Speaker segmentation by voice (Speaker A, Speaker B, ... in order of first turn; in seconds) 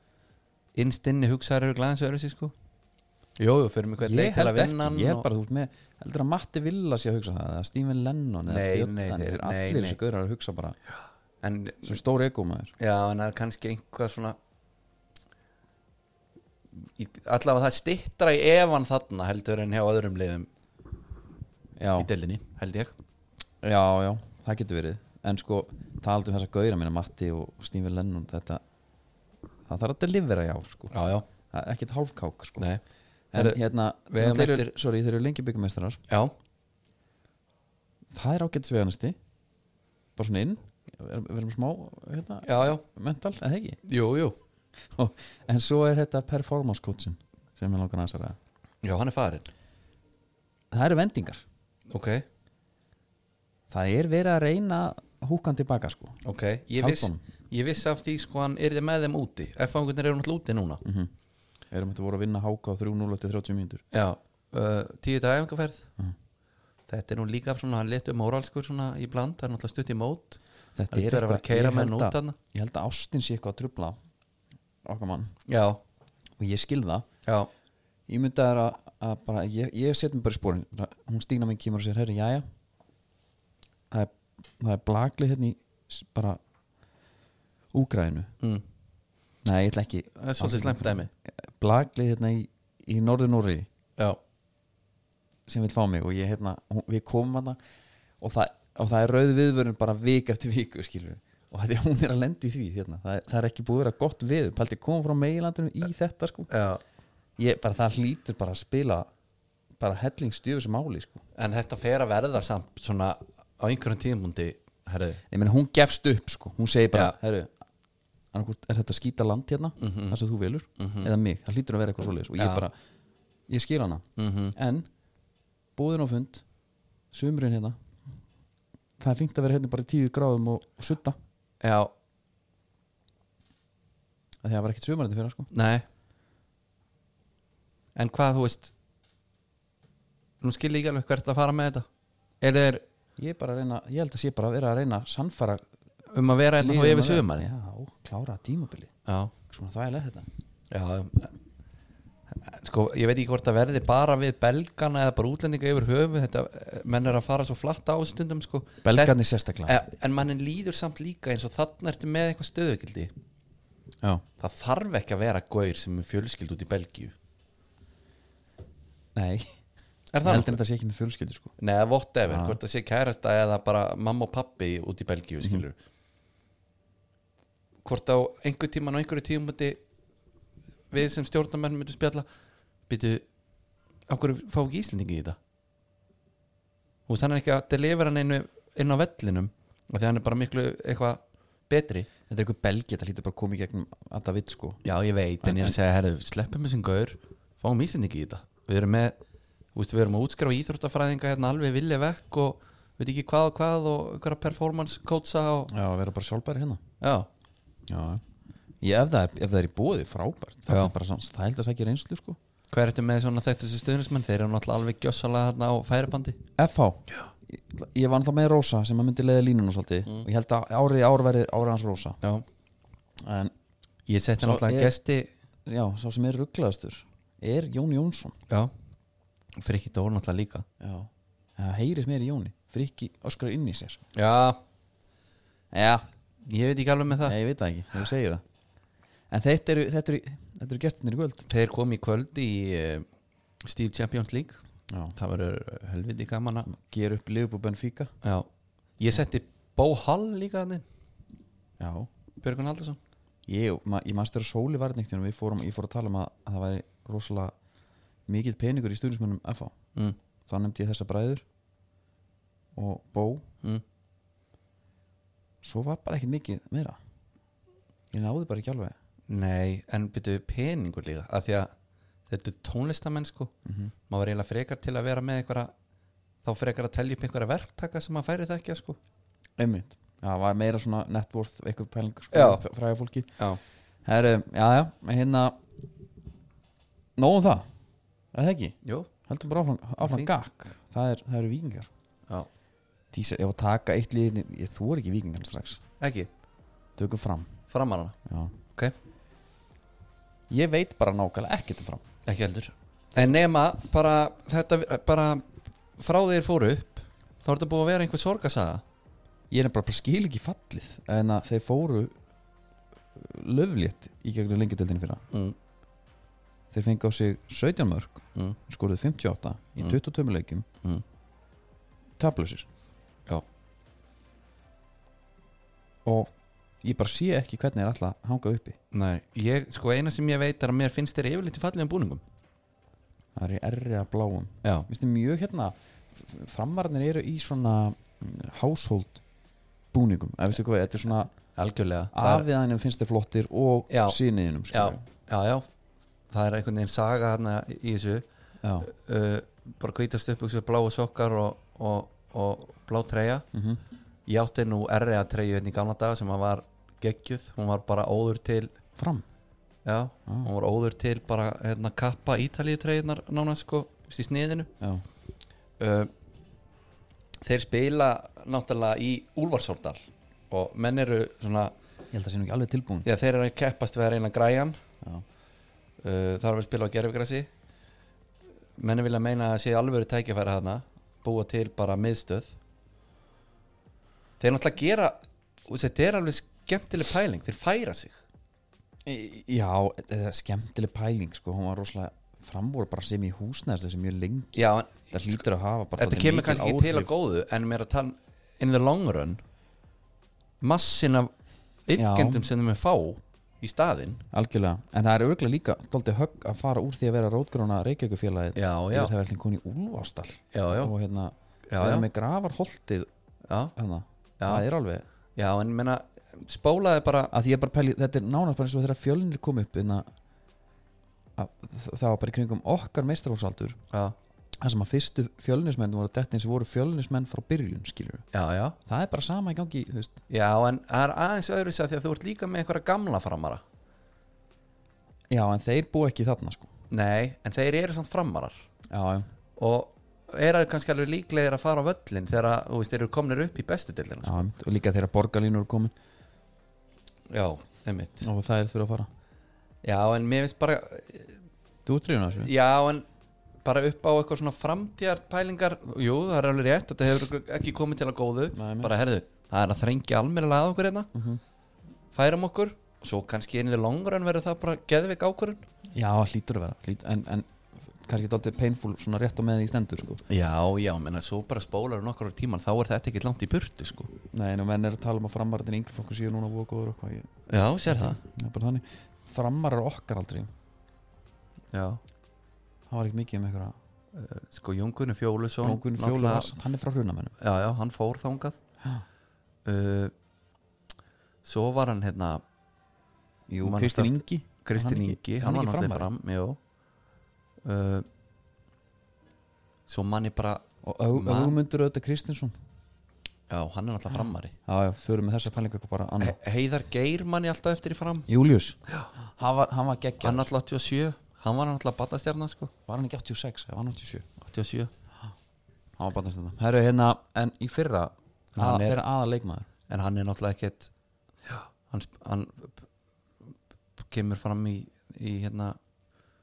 Speaker A: 0.7-2.5, 3.4-5.3, 8.4-10.0, 11.4-12.0, 12.8-14.4, 16.7-20.5, 22.0-22.9, 30.9-31.2, 33.3-34.7, 36.1-36.3, 42.4-42.8, 43.8-44.3, 48.8-49.5, 51.9-52.2, 56.2-60.8, 63.9-65.9, 66.9-70.4, 70.9-72.3, 75.5-75.8, 90.2-91.1, 106.5-106.8, 111.3-115.2, 119.8-120.2, 120.8-121.1, 122.4-122.6, 124.2-124.5, 131.6-131.9, 135.5-135.8, 137.9-138.7, 140.4-141.9, 142.4-142.8, 146.1-147.4, 149.1-149.3, 150.7-151.3, 152.3-163.1, 164.4-167.1, 170.1-170.6, 171.6-175.8, 177.8-179.8, 180.9-182.2, 182.9-183.2, 184.1-185.4, 187.1-192.1, 194.8-199.2, 199.7-205.7, 207.0-207.3, 212.7-216.4, 224.1-225.3, 229.6-230.6, 234.1-234.6, 236.4-237.4, 241.5-243.1, 243.6-244.6, 245.2-246.7, 248.2-250.8, 252.4-253.0, 269.3-271.7, 272.3-273.5, 274.1-275.7, 276.4-279.0, 282.3-282.6, 288.8-289.1, 290.0-290.3, 296.0-296.3, 297.7-298.1, 302.2-308.8, 315.3-315.6, 328.9-332.2, 341.5-342.4, 343.9-344.2, 344.7-345.7, 346.3-348.2, 348.8-353.4, 354.2-358.7, 359.8-364.7, 365.8-366.1, 367.4-371.7, 373.0-374.8, 376.0-377.5, 378.8-382.6, 384.4-388.2, 394.5-395.4, 396.0-399.4, 400.6-401.3, 401.9-404.2, 408.6-409.1, 410.5-410.9, 411.7-412.1, 413.4-413.7, 414.4-414.6, 415.4-417.3, 423.9-424.1, 428.3-428.8, 430.3-433.6, 436.9-438.7, 439.6-444.5, 447.3-448.3, 449.8-451.4, 452.4-453.1, 453.6-461.1, 462.1-465.6, 470.3-474.1, 477.5-478.2, 481.7-482.0, 484.1-486.5, 487.4-488.6, 489.6-490.1, 491.4-492.4, 493.6-496.6, 497.6-498.1, 499.9-501.6, 503.5-504.6, 506.2-508.3, 510.2-512.7, 514.4-514.9, 518.5-519.0, 519.9-520.9, 521.5-522.9, 524.0-525.8
Speaker B: 4.0-10.8, 11.8-12.7, 21.8-22.1, 23.6-28.6, 29.7-30.9, 31.5-32.7, 33.3-36.0, 38.1-39.1, 40.2-43.8, 44.9-48.4, 50.7-51.4, 53.7-56.2, 56.8-57.2, 60.8-61.1, 61.7-63.8, 70.8-74.0, 74.8-75.3, 76.4-77.1, 78.1-82.4, 83.9-86.4, 87.7-88.3, 89.4-93.7, 95.5-97.6, 98.2-106.5, 107.4-109.1, 109.8-111.2, 115.3-117.5, 118.3-122.7, 123.5-124.9, 125.8-126.4, 127.1-127.8, 129.0-131.2, 134.4-135.5, 143.2-145.6, 146.6-148.9, 149.5-150.3, 158.8-159.8, 169.2-169.5, 170.2-171.5, 172.3-172.6, 192.3-194.8, 195.4-195.8, 205.7-206.8, 207.9-208.2, 208.8-212.4, 216.6-222.2, 223.2-223.5, 224.4-224.9, 225.7-228.3, 230.8-234.0, 235.7-236.0, 237.2-238.4, 239.3-241.5, 244.9-245.2, 246.7-248.1, 251.8-252.1, 253.5-257.5, 258.3-259.7, 260.5-261.4, 262.8-263.4, 265.6-267.0, 268.1-268.9, 273.6-273.9, 279.6-283.3, 284.0-285.6, 287.2-287.6, 288.3-291.9, 293.1-295.8, 297.0-297.6, 298.2-298.5, 300.5-302.0, 309.5-312.1, 313.1-315.2, 316.7-320.6, 322.2-322.7, 326.0-326.3, 326.8-328.8, 333.4-339.2, 339.9-341.3, 342.1-345.1, 348.6-348.9, 353.5-353.8, 358.9-359.2, 372.1-373.1, 389.0-397.1, 402.0-402.5, 404.3-413.1, 413.7-415.1, 417.3-420.1, 421.4-423.8, 424.6-428.2, 428.8-430.2, 435.3-436.7, 438.9-439.3, 444.2-445.9, 448.2-449.1, 451.9-452.5, 458.5-458.9, 461.1-461.4, 465.9-470.2, 474.3-477.3, 477.9-480.5, 482.9-483.8, 485.6-487.3, 493.5-496.1, 500.8-502.5, 504.7-506.4, 508.3-510.5, 512.9-514.3, 516.0-519.7